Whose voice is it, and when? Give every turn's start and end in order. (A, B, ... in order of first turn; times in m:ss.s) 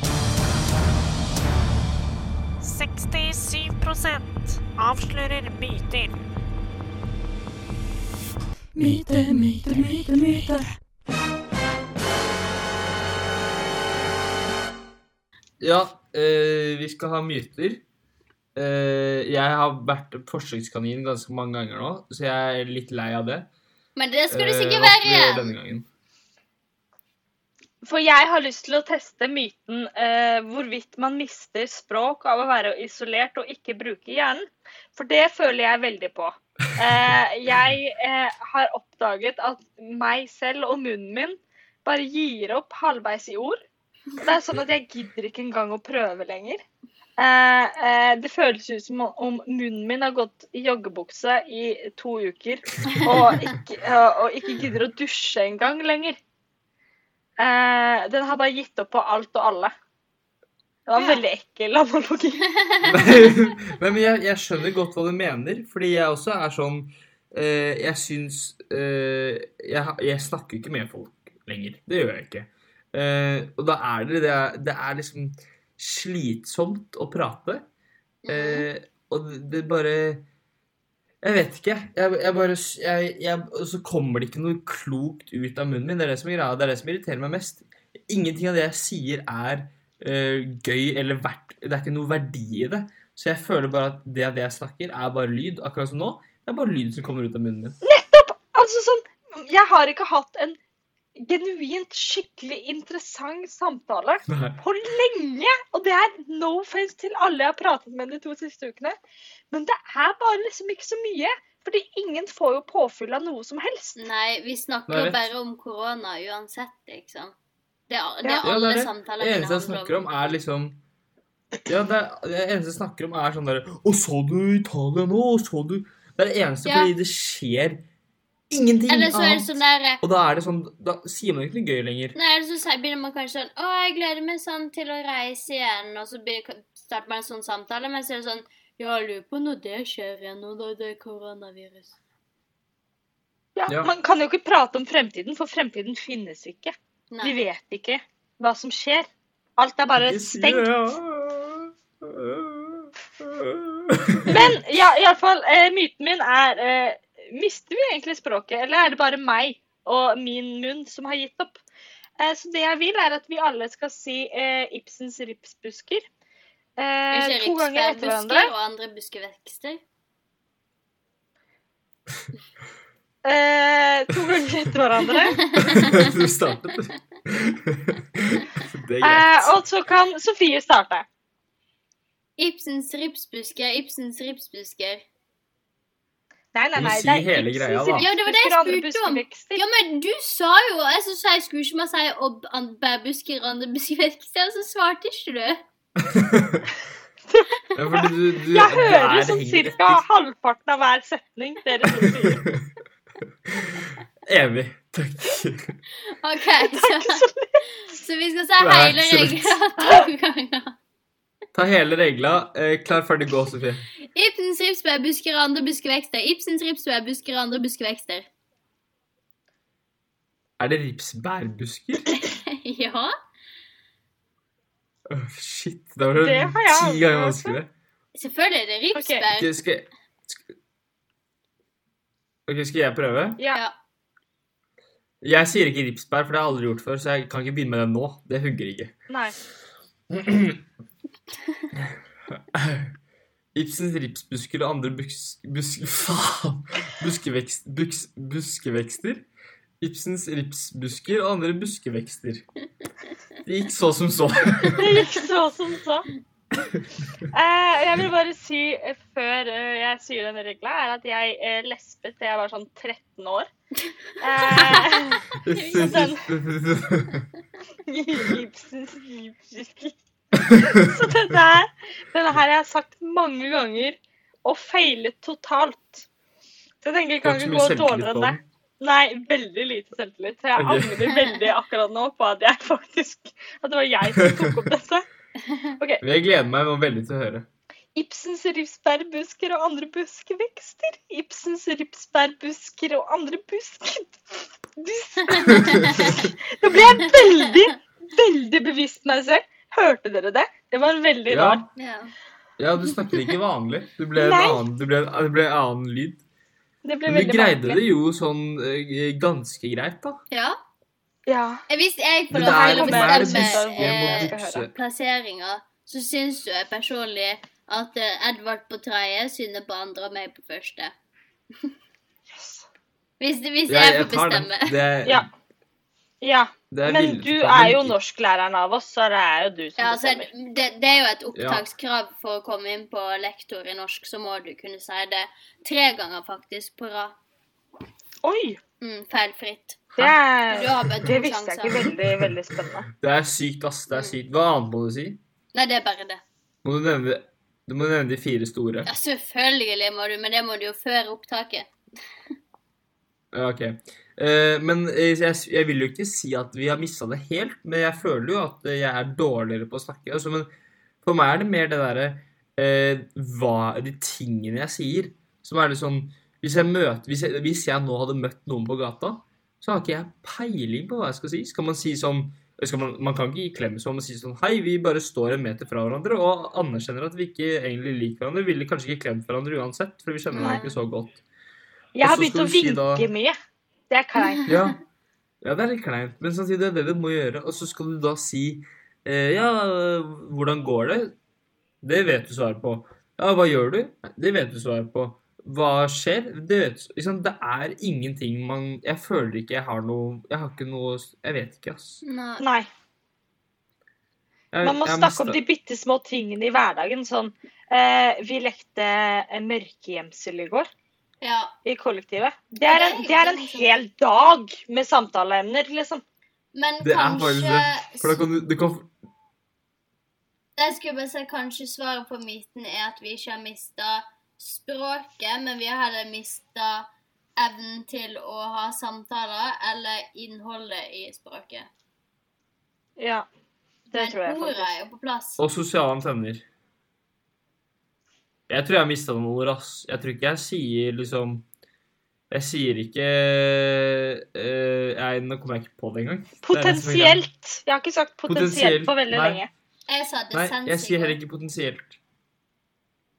0:02.6-0:06.2 A
0:08.7-0:10.8 B
0:15.6-0:17.8 C
0:18.5-0:23.5 C
0:24.0-0:25.5 D
0:24.3-0:25.8 C
0:27.8-0:43.6 E
0:44.2-0:46.6 E
0:47.2-0:56.2 E
0:57.4-0:59.7 E
1:00.9-1:02.4 E
1:02.6-1:03.0 D
1:02.8-1:17.6 C
1:18.2-1:18.7 D
1:18.3-1:20.2 C
1:21.2-1:37.8 C
1:37.8-1:40.6 E
1:41.2-1:49.0 E
1:44.3-1:44.6 C
1:49.5-1:54.0 E
1:54.0-1:57.3 D
1:54.9-1:55.3 C
1:57.9-2:00.1 D
1:58.4-2:00.8 C
2:01.7-2:07.8 C
2:06.6-2:06.9 D
2:08.5-2:12.2 C
2:08.9-2:10.0 D
2:12.1-2:21.9 D
2:23.6-2:29.1 E
2:27.1-2:27.4 D
2:29.6-2:30.7 E
2:30.0-2:34.5 C
2:34.3-2:41.6 E
2:42.2-2:46.1 E
2:46.8-2:48.5 E
2:47.1-2:49.8 D
2:53.2-2:55.4 E
2:55.3-2:56.1 D
2:55.6-2:59.6 C
2:59.0-3:01.0 E
3:02.4-3:05.0 D
3:06.5-3:09.6 E
3:06.8-3:08.1 C
3:08.0-3:15.6 D
3:16.0-3:16.7 C
3:17.3-3:22.4 E
3:17.7-3:20.0 C
3:21.9-3:22.6 C
3:23.5-3:25.8 C
3:26.1-3:30.8 D
3:26.6-3:27.6 E
3:28.6-3:29.6 C
3:31.5-3:33.9 C
3:34.1-3:38.3 D
3:40.6-3:42.1 C
3:42.1-3:43.1 D
3:45.1-3:47.7 C
3:46.2-3:47.6 E
3:48.1-3:49.5 D
3:48.9-3:49.2 E
3:49.3-3:50.5 C
3:52.5-3:53.4 C
3:55.2-3:58.9 C
3:59.1-3:59.4 E
4:00.1-4:00.6 C
4:01.7-4:02.9 C
4:03.5-4:09.2 C
4:09.8-4:12.4 C
4:13.4-4:15.0 C
4:14.8-4:16.1 E
4:17.3-4:23.5 E
4:24.2-4:26.3 E
4:24.3-4:25.9 D
4:25.4-4:27.2 C
4:27.9-4:29.9 E
4:30.3-4:31.0 C
4:30.5-4:36.0 E
4:36.8-4:45.0 E
4:37.2-4:38.4 C
4:40.6-4:41.0 C
4:44.2-4:44.5 C
4:45.5-4:45.7 D
4:46.0-4:47.5 C
4:48.0-5:01.6 E
4:55.3-4:56.2 D
4:55.5-4:56.3 C
5:01.3-5:01.7 C
5:01.8-5:02.1 D
5:02.6-5:06.2 C
5:04.2-5:04.6 E
5:06.8-5:07.8 E
5:07.1-5:10.2 C
5:10.3-5:10.6 D
5:11.3-5:11.6 E
5:11.7-5:20.9 D
5:12.3-5:14.7 C
5:12.3-5:14.6 E
5:22.3-5:22.6 E
5:23.2-5:24.8 D
5:23.7-5:25.3 C
5:26.2-5:30.3 E
5:26.7-5:27.9 C
5:29.8-5:37.2 D
5:31.3-5:31.6 C
5:38.2-5:38.6 E
5:38.8-5:41.9 D
5:40.0-5:42.9 E
5:42.9-5:45.2 C
5:43.9-5:44.2 D
5:45.5-5:46.2 D
5:46.6-5:48.9 C
5:48.8-5:51.7 D
5:53.3-6:00.5 C
6:01.0-6:21.2 C
6:20.3-6:20.8 D
6:21.9-6:23.3 E
6:22.0-6:23.1 C
6:23.9-6:24.4 E
6:24.2-6:24.5 D
6:24.5-6:24.8 C
6:25.4-6:31.1 C
6:31.8-6:42.0 C
6:42.0-6:42.4 D
6:42.4-6:42.7 E
6:44.5-6:45.4 C
6:44.6-6:50.7 E
6:51.2-6:51.5 D
6:51.6-6:56.0 E
6:52.7-6:53.7 D
6:56.5-6:58.2 D
6:56.8-6:58.9 C
7:00.6-7:11.7 D
7:13.0-7:13.2 E
7:13.9-7:14.7 E
7:13.9-7:15.4 D
7:15.4-7:16.4 C
7:18.5-7:21.4 C
7:22.3-7:27.2 C
7:26.4-7:29.5 E
7:28.3-7:29.4 C
7:29.9-7:31.2 D
7:30.3-7:32.0 C